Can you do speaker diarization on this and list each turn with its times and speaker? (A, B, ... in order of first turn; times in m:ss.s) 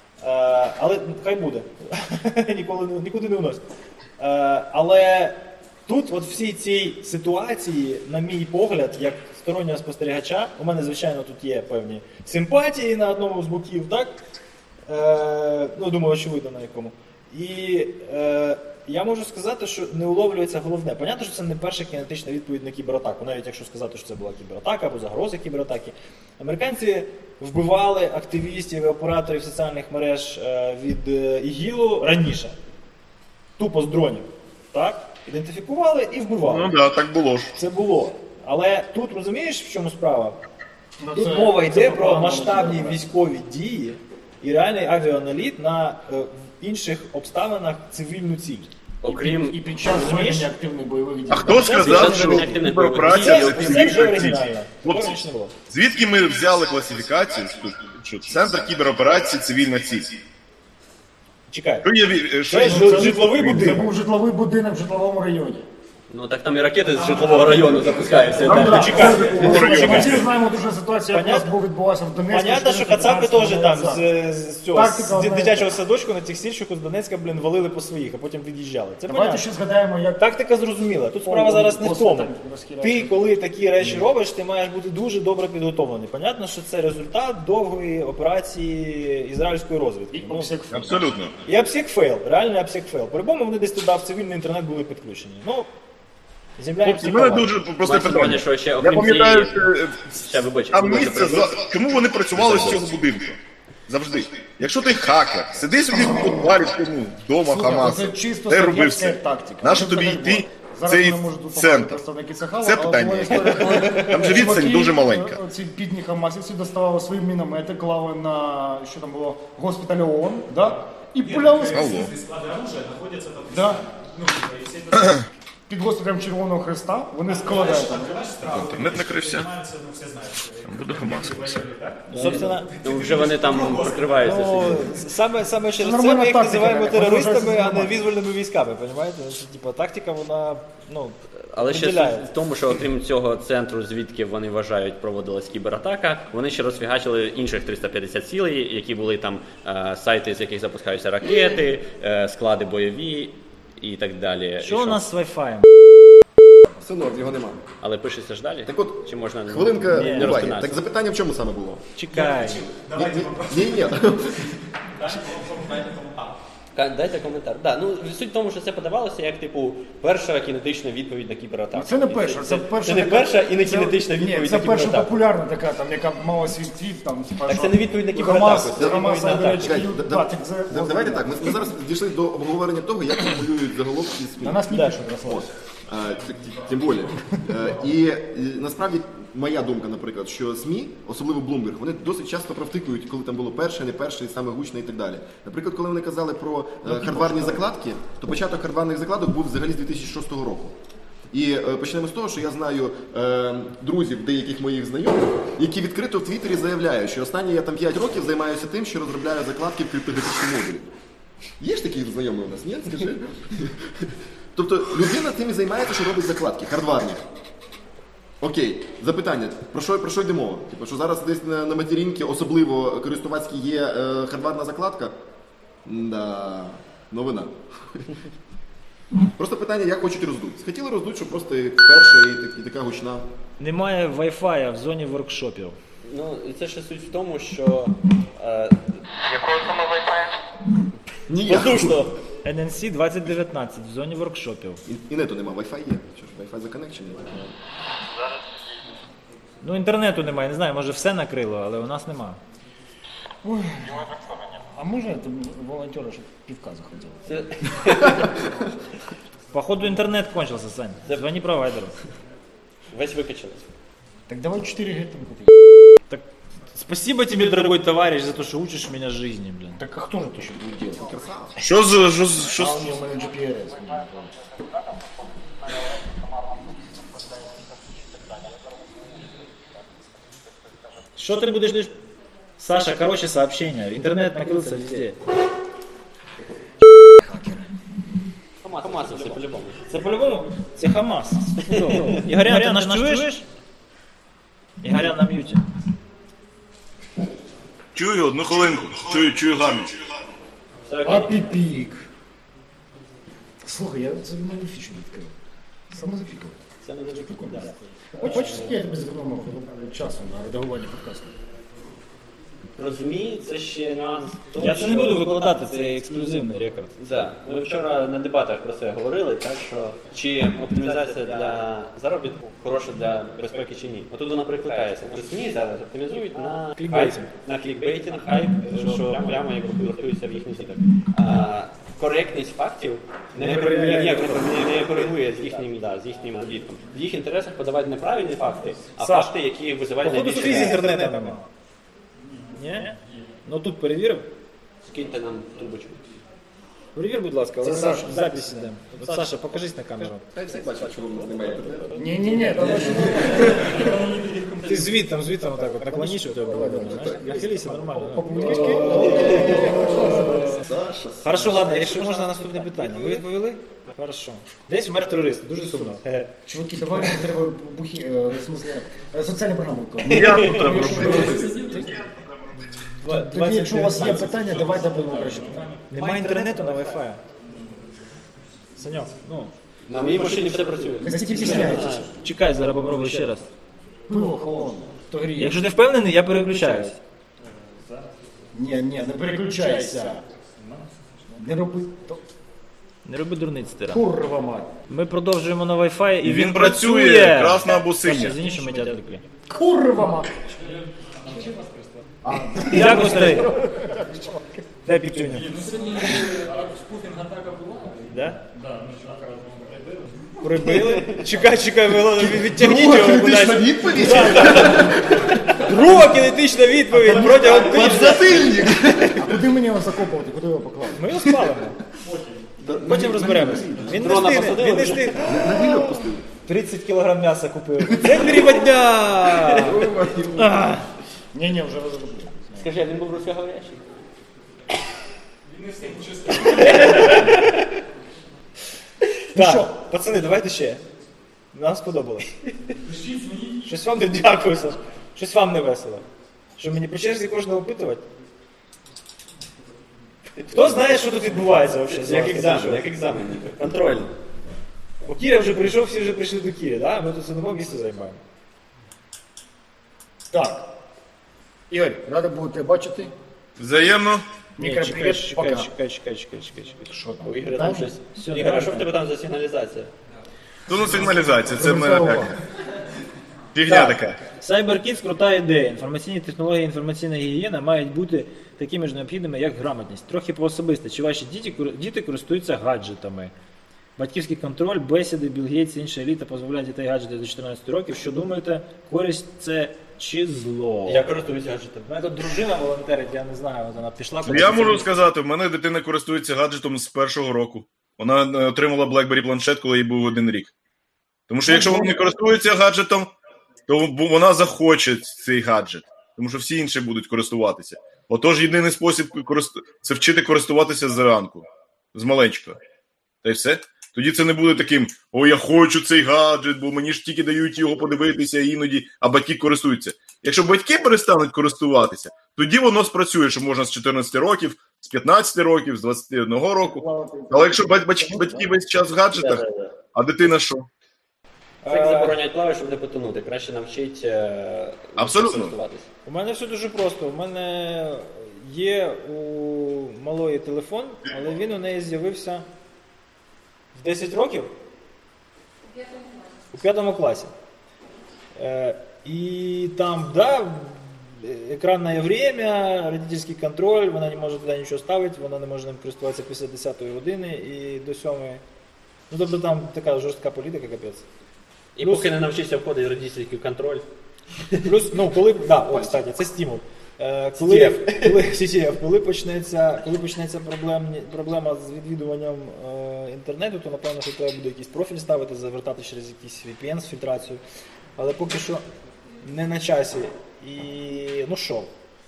0:00.2-0:03.6 A
0:04.2-0:14.2 A
0:14.9-0:32.6 A
0:33.6-0:36.7 A
0:36.4-0:37.5 B
0:37.6-0:40.4 A
0:41.0-0:43.1 C
0:41.2-0:48.7 A
0:49.0-0:49.6 D
0:49.2-0:52.4 C
0:49.9-0:50.5 A
0:51.3-0:55.2 B
0:51.5-0:55.5 A
0:51.7-0:54.0 D
0:55.7-1:00.1 B
1:01.5-1:01.9 A
1:01.8-1:03.9 B
1:02.5-1:03.9 A
1:02.5-1:05.7 C
1:06.1-1:09.0 D
1:06.9-1:09.6 E
1:08.4-1:14.1 C
1:08.4-1:10.3 B
1:08.4-1:10.2 A
1:11.1-1:11.5 A
1:12.3-1:19.4 A
1:14.7-1:15.7 C
1:19.1-1:20.2 C
1:20.2-1:30.5 A
1:21.2-1:23.3 C
1:30.1-1:31.1 C
1:30.7-1:31.4 B
1:31.5-1:35.7 A
1:36.6-1:37.6 A
1:36.8-1:40.1 B
1:37.8-1:41.7 D
1:40.7-1:43.4 B
1:42.4-1:42.8 D
1:43.9-1:52.0 B
1:47.4-2:01.9 C
1:52.6-1:55.4 B
1:54.1-1:54.8 F
2:00.5-2:05.2 E
2:01.7-2:02.1 B
2:03.5-2:03.8 C
2:05.0-2:05.3 B
2:05.7-2:08.2 C
2:07.2-2:14.8 E
2:08.4-2:09.5 B
2:10.6-2:11.7 B
2:12.1-2:12.7 A
2:12.2-2:14.9 D
2:14.2-2:22.3 A
2:14.4-2:15.0 C
2:15.8-2:18.1 C
2:21.5-2:35.0 D
2:34.6-2:35.7 A
2:36.7-2:37.6 F
2:37.8-2:40.8 D
2:38.7-2:41.9 F
2:39.9-2:40.5 A
2:42.0-2:42.6 A
2:42.1-2:46.4 E
2:42.9-2:44.6 F
2:46.7-2:55.2 D
2:51.7-3:01.7 C
2:57.5-2:59.7 D
2:58.8-3:04.7 F
3:04.4-3:05.5 C
3:05.2-3:20.8 F
3:06.4-3:07.0 E
3:21.3-3:30.9 F
3:31.6-3:37.2 F
3:38.4-3:45.2 F
3:45.8-3:48.2 F
3:49.4-3:53.3 F
3:53.6-3:55.8 A
3:56.0-4:00.1 D
4:01.3-4:02.1 F
4:01.3-4:02.2 D
4:02.4-4:04.8 A
4:04.8-4:07.5 F
4:09.6-4:12.4 A
4:13.4-4:17.2 C
4:17.3-4:18.5 D
4:19.5-4:22.0 A
4:22.9-4:23.7 D
4:24.3-4:25.5 C
4:26.1-4:29.8 A
4:29.8-4:31.2 C
4:30.9-4:31.5 F
4:31.6-4:33.0 B
4:32.4-4:34.3 C
4:41.2-4:42.0 A
4:42.6-4:45.2 A
4:47.2-4:47.7 C
4:48.6-4:49.8 D
4:49.0-4:53.4 A
4:51.6-4:52.3 D
4:52.4-4:53.0 C
4:54.8-4:55.6 A
4:58.0-5:00.0 B
5:00.9-5:01.5 D
5:01.0-5:02.1 C
5:03.6-5:05.3 C
5:05.9-5:11.3 C
5:06.8-5:08.7 D
5:08.2-5:08.8 A
5:12.8-5:15.9 D
5:14.6-5:17.0 A
5:17.0-5:40.8 D
5:20.9-5:21.6 A
5:26.4-5:27.3 A
5:28.7-5:29.5 A
5:33.4-5:35.6 A
5:39.0-5:39.3 A
5:40.0-5:41.4 A
5:40.2-5:41.3 C
5:42.6-5:44.3 A
5:44.8-5:46.0 D
5:47.0-5:50.2 A
5:47.6-5:48.7 C
5:50.3-5:52.8 F
5:50.5-5:54.0 D
5:51.9-5:54.1 C
5:54.6-6:00.6 A
5:55.8-6:00.6 C
5:56.7-5:57.4 F
5:58.9-6:01.8 F
6:01.2-6:06.3 A
6:01.6-6:03.2 D
6:06.5-6:12.0 C
6:10.1-6:11.5 B
6:10.1-6:10.7 D
6:13.0-6:17.2 A
6:13.1-6:16.5 C
6:18.8-6:19.5 A
6:19.9-6:22.1 D
6:21.0-6:22.1 C
6:21.4-6:23.5 A
6:24.1-6:25.7 C
6:25.4-6:27.0 A
6:27.8-6:28.1 E
6:28.5-6:30.2 C
6:29.3-6:30.2 A
6:31.4-6:32.2 C
6:33.0-6:34.0 A
6:33.9-6:34.7 C
6:34.9-6:39.3 A
6:36.2-6:38.4 B
6:39.5-6:40.4 C
6:40.6-6:42.0 E
6:42.2-6:44.4 C
6:42.6-6:43.6 A
6:44.8-6:45.5 A
6:45.4-6:50.1 E
6:48.1-6:48.4 A
6:50.4-6:54.9 A
6:50.8-6:51.2 D
6:52.0-6:55.4 F
6:55.4-6:58.6 A
6:57.0-6:59.5 F
6:59.2-7:01.1 C
7:00.9-7:01.8 A
7:02.0-7:02.4 E
7:02.6-7:04.1 F
7:02.8-7:05.6 A
7:03.9-7:05.2 D
7:05.1-7:06.2 F
7:06.4-7:09.8 A
7:09.4-7:09.9 D
7:09.4-7:10.8 F
7:10.4-7:10.8 A
7:11.3-7:12.7 C
7:12.6-7:13.8 D
7:15.4-7:17.2 E
7:16.5-7:17.4 A
7:16.5-7:17.6 D
7:19.3-7:20.8 A
7:19.4-7:19.7 C
7:21.5-7:22.3 A
7:22.9-7:23.5 E
7:23.6-7:26.0 A
7:26.6-7:28.0 A
7:30.4-7:30.9 D
7:30.5-7:32.8 A
7:31.9-7:34.1 D
7:35.1-7:38.2 A
7:40.3-7:40.7 C
7:41.7-7:43.1 C
7:43.6-7:44.3 B
7:44.6-7:45.7 C
7:44.6-7:46.9 A
7:46.9-7:47.9 C
7:47.2-7:49.9 D
7:48.2-7:48.9 A
7:50.7-7:52.4 B
7:50.8-7:51.4 E
7:51.3-7:52.4 C
7:53.6-7:54.2 B
7:53.7-8:03.3 A
8:04.0-8:11.1 A
8:10.9-8:12.2 D
8:11.9-8:14.9 A
8:14.2-8:20.5 B
8:21.3-8:23.1 B
8:21.5-8:21.9 A
8:23.7-8:32.6 B
8:33.2-8:49.4 B
8:46.6-8:48.7 C
8:49.1-8:49.8 D
8:49.9-8:50.7 B
8:51.6-8:52.2 A
8:51.7-8:55.9 D
8:55.0-8:55.6 B
8:56.0-9:02.4 A
9:03.7-9:04.5 A
9:06.5-9:07.3 A
9:08.4-9:18.4 A
9:19.1-9:21.0 A
9:21.8-9:23.8 D
9:21.8-9:22.1 A
9:24.6-9:37.4 A
9:27.4-9:28.3 D
9:38.0-9:38.6 A
9:39.2-9:41.7 A